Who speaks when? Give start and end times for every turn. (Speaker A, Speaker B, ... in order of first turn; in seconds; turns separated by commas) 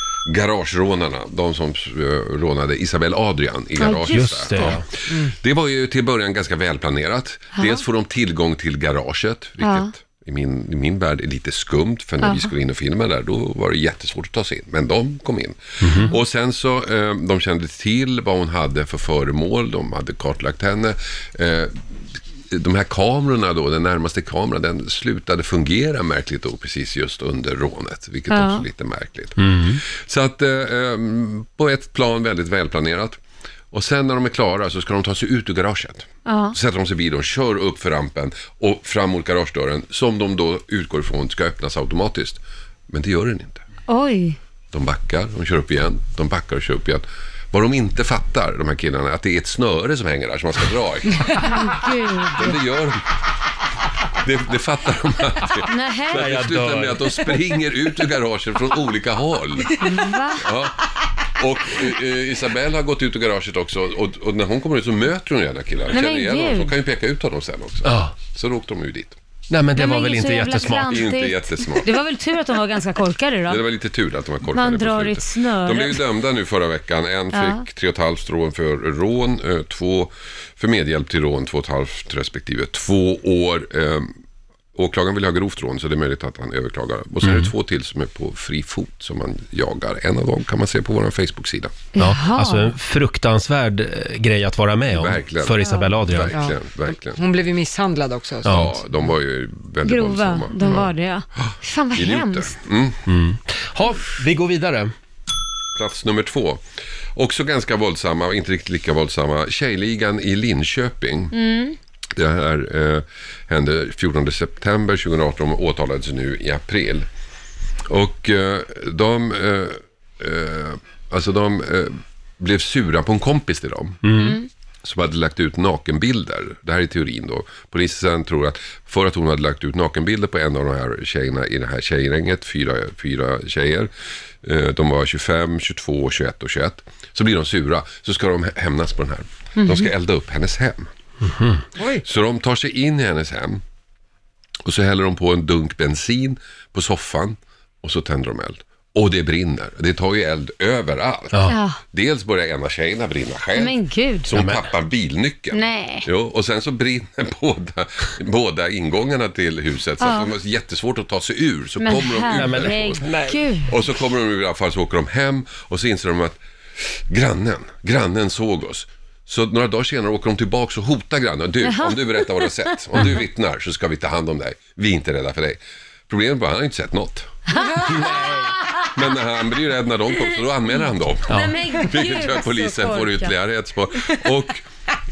Speaker A: 0.2-33.2, Speaker B: 3.8-4.7, Speaker C: 3.9-4.8, Speaker B: 7.5-7.8, Speaker B: 9.6-9.9, Speaker B: 12.2-12.5, Speaker C: 15.8-16.1, Speaker B: 28.3-28.6, Speaker C: 29.4-29.8, Speaker A: 33.7-43.6, Speaker B: 36.2-36.5, Speaker B: 43.9-44.4, Speaker A: 44.7-51.7, Speaker B: 51.3-52.5, Speaker A: 52.3-53.0, Speaker A: 54.1-69.2, Speaker B: 55.7-56.3, Speaker C: 56.1-57.4, Speaker B: 59.8-60.5, Speaker B: 65.9-66.7, Speaker C: 67.8-68.1, Speaker C: 69.5-71.1, Speaker B: 69.7-73.6, Speaker A: 70.9-71.9, Speaker A: 73.5-84.1, Speaker B: 74.5-76.0, Speaker B: 77.3-77.6, Speaker A: 84.7-91.8, Speaker C: 87.2-87.5, Speaker B: 91.9-92.7, Speaker C: 92.0-96.3, Speaker A: 94.9-97.2, Speaker B: 95.6-95.9, Speaker D: 96.3-98.7, Speaker C: 98.4-98.8, Speaker A: 98.4-103.0, Speaker B: 99.8-102.5, Speaker C: 103.1-104.9, Speaker A: 105.7-106.6, Speaker A: 107.2-111.3, Speaker B: 111.3-111.8, Speaker A: 112.2-117.1, Speaker A: 117.9-124.3, Speaker C: 124.0-124.4, Speaker B: 124.2-124.5, Speaker A: 124.8-133.9, Speaker A: 134.4-140.9, Speaker B: 139.6-139.9, Speaker C: 141.2-141.6, Speaker D: 141.8-142.0, Speaker A: 141.9-143.6, Speaker A: 144.6-163.1, Speaker B: 151.4-151.8, Speaker B: 153.5-154.3, Speaker C: 154.3-154.6, Speaker B: 155.5-156.1, Speaker B: 160.0-160.3, Speaker B: 161.8-163.7, Speaker C: 162.3-163.4, Speaker A: 163.7-177.3, Speaker B: 171.6-172.5, Speaker B: 177.5-178.9, Speaker D: 177.6-178.4, Speaker A: 178.9-184.6, Speaker B: 181.3-183.3, Speaker C: 181.3-181.6